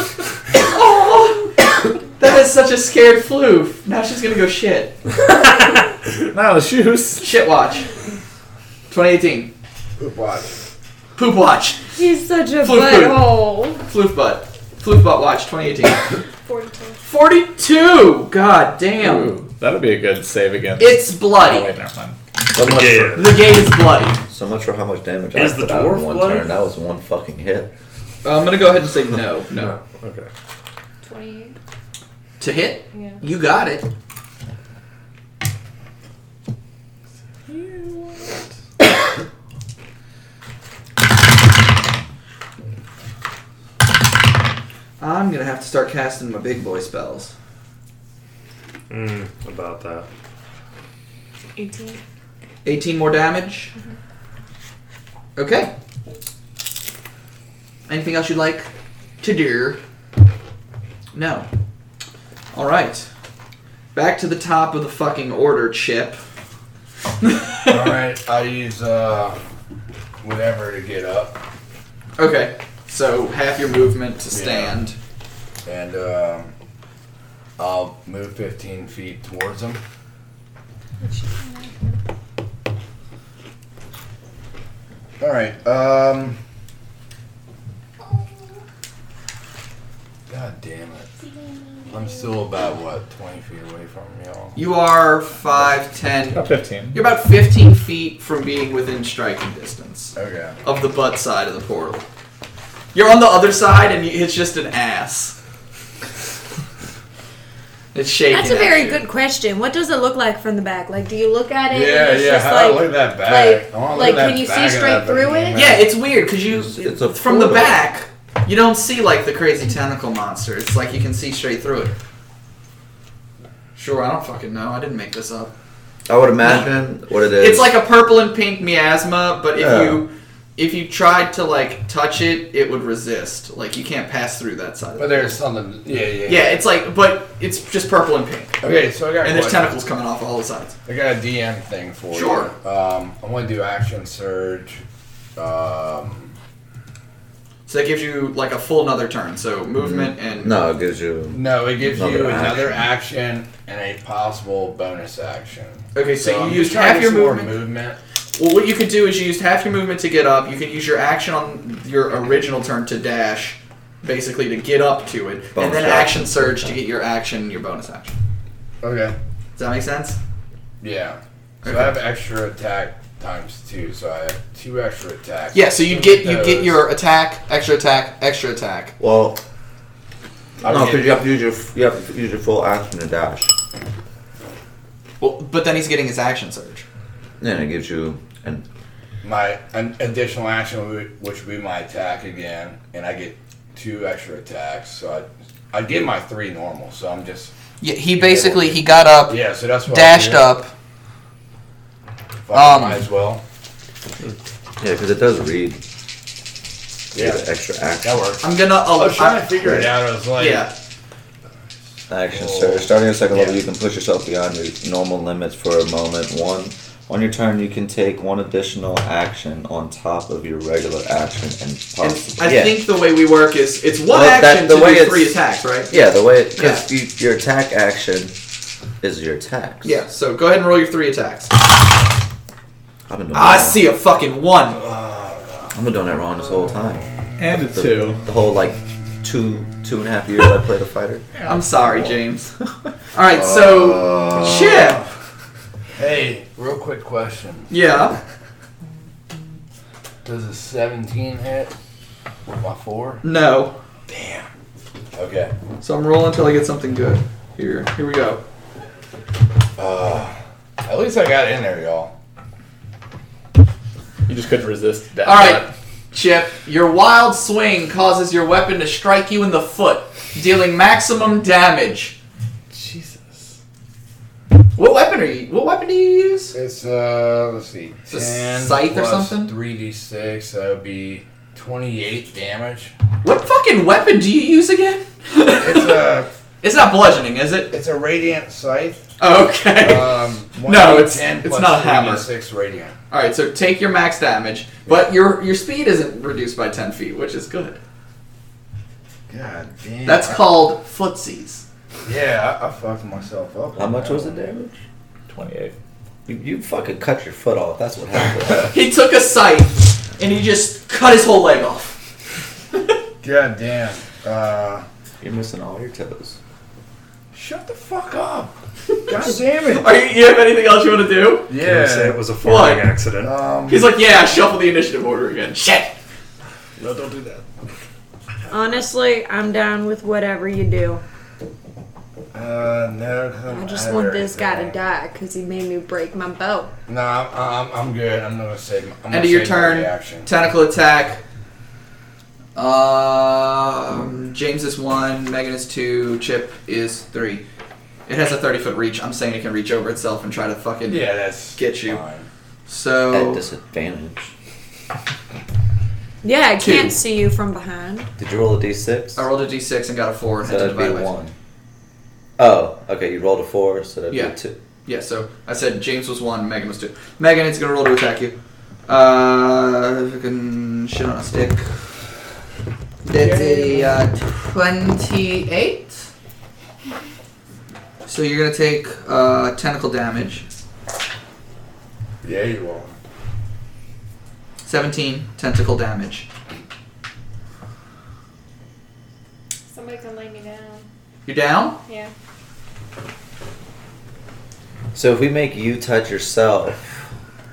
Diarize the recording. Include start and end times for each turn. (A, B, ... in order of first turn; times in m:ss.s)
0:00.6-0:05.0 A
0:06.3-0:07.3 B
0:07.2-0:07.9 A
0:08.9-0:09.5 A
0:10.0-0:10.6 C
0:11.2-0:11.9 A
0:11.9-0:13.8 D
0:12.6-0:16.1 A
0:16.4-0:17.0 E
0:17.1-0:19.4 A
0:19.0-0:22.2 B
0:20.8-0:21.7 A
0:22.5-0:23.2 F
0:22.6-0:23.3 G
0:23.1-0:24.2 A
0:24.3-0:27.7 F
0:25.3-0:26.6 G
0:28.2-0:29.8 A
0:29.5-0:30.3 G
0:31.0-0:31.6 E
0:32.4-0:33.9 A
0:32.9-0:33.2 E
0:37.5-0:38.2 B
0:45.0-0:47.3 A
0:48.9-0:50.1 G
0:51.6-0:52.0 E
0:52.6-0:53.7 A
0:55.4-0:55.7 A
0:57.9-0:58.7 A
0:59.2-0:59.8 A
1:01.1-1:01.5 A
1:02.5-1:03.1 A
1:03.9-1:06.2 A
1:07.2-1:07.9 A
1:07.7-1:09.4 C
1:10.2-1:11.4 C
1:12.2-1:15.0 A
1:14.3-1:14.8 C
1:15.6-1:16.5 C
1:17.6-1:19.8 C
1:21.0-1:22.0 E
1:25.2-1:26.4 C
1:30.3-1:31.1 C
1:31.4-1:32.4 E
1:31.9-1:34.6 C
1:34.6-1:42.0 A
1:36.3-1:37.0 B
1:40.2-1:40.6 C
1:42.9-1:45.4 A
1:47.9-1:49.0 A
1:48.3-1:55.7 D
1:51.7-1:55.9 C
1:55.5-2:02.0 A
1:56.5-1:57.8 F
2:03.8-2:05.5 A
2:06.1-2:07.8 F
2:07.4-2:15.4 A
2:09.6-2:10.1 F
2:15.0-2:16.6 C
2:16.3-2:18.6 A
2:18.6-2:19.8 C
2:19.2-2:20.8 A
2:20.9-2:24.8 C
2:22.1-2:22.5 A
2:25.4-2:26.3 C
2:27.7-2:30.6 A
2:29.8-2:32.9 F
2:31.3-2:38.0 C
2:35.9-2:37.6 A
2:38.4-2:48.2 A
2:45.6-2:46.8 F
2:48.8-2:49.2 C
2:49.6-2:50.2 A
2:50.8-2:56.8 C
2:51.6-2:52.0 A
2:55.5-2:59.0 A
2:59.0-2:59.4 F
3:00.6-3:01.2 C
3:00.6-3:03.5 F
3:05.2-3:06.9 A
3:07.4-3:08.6 F
3:09.2-3:17.5 C
3:17.8-3:20.7 A
3:18.2-3:20.6 C
3:22.5-3:23.4 C
3:22.5-3:23.1 A
3:24.8-3:25.8 F
3:27.1-3:28.2 F
3:27.1-3:27.4 C
3:28.0-3:30.7 C
3:28.4-3:30.7 A
3:32.1-3:42.8 F
3:32.3-3:33.6 C
3:42.0-3:46.0 A
3:44.1-3:48.4 F
3:46.6-3:46.9 A
3:49.0-3:50.0 F
3:49.8-3:51.6 A
3:53.1-3:53.8 F
3:53.3-3:54.8 A
3:54.8-3:55.7 C
3:55.7-4:01.3 F
3:57.4-3:58.2 B
4:01.5-4:02.5 A
4:03.1-4:05.0 A
4:03.6-4:04.7 F
4:03.8-4:05.0 C
4:06.0-4:07.7 C
4:07.7-4:08.2 A
4:10.2-4:11.7 C
4:12.5-4:13.2 C
4:13.2-4:13.8 A
4:14.1-4:14.5 C
4:15.2-4:15.5 C
4:15.8-4:18.4 A
4:19.8-4:22.1 C
4:24.3-4:25.7 B
4:25.2-4:32.2 A
4:32.7-4:33.4 B
4:34.8-4:36.6 A
4:36.5-4:42.9 C
4:38.1-4:39.5 A
4:43.2-4:46.1 A
4:45.5-4:46.3 C
4:46.6-4:47.7 A
4:47.7-4:49.0 C
4:49.2-4:52.3 A
4:49.8-4:52.9 C
4:53.1-4:57.8 A
4:59.3-5:00.5 C
5:00.0-5:01.6 A
5:02.0-5:04.4 C
5:03.8-5:04.8 F
5:05.3-5:05.8 B
5:06.3-5:08.7 F
5:08.7-5:12.0 A
5:13.2-5:14.9 C
5:15.2-5:16.4 F
5:17.3-5:18.5 C
5:19.1-5:19.9 C
5:19.7-5:21.5 A
5:21.5-5:22.3 C
5:21.5-5:23.3 G
5:22.4-5:22.9 A
5:23.2-5:23.9 C
5:23.7-5:26.0 A
5:26.8-5:27.4 C
5:28.5-5:31.0 D
5:32.3-5:34.8 C
5:33.5-5:36.7 D
5:36.9-5:40.3 C
5:39.1-5:41.2 A
5:42.6-5:47.4 A
5:48.1-5:52.0 A
5:50.9-5:52.3 C
5:52.7-5:53.4 A
5:53.1-5:54.3 F
5:56.2-5:58.1 D
5:56.6-5:57.0 A
5:58.2-5:59.3 F
5:59.2-6:01.1 A
6:00.4-6:01.3 F
6:02.4-6:04.6 F
6:04.1-6:08.4 A
6:08.9-6:11.7 A
6:13.0-6:16.1 A
6:13.1-6:14.0 C
6:18.1-6:20.5 A
6:22.2-6:23.0 C
6:24.6-6:26.3 A
6:29.7-6:30.9 E
6:31.3-6:31.8 A
6:31.8-6:32.1 E
6:34.9-6:36.8 F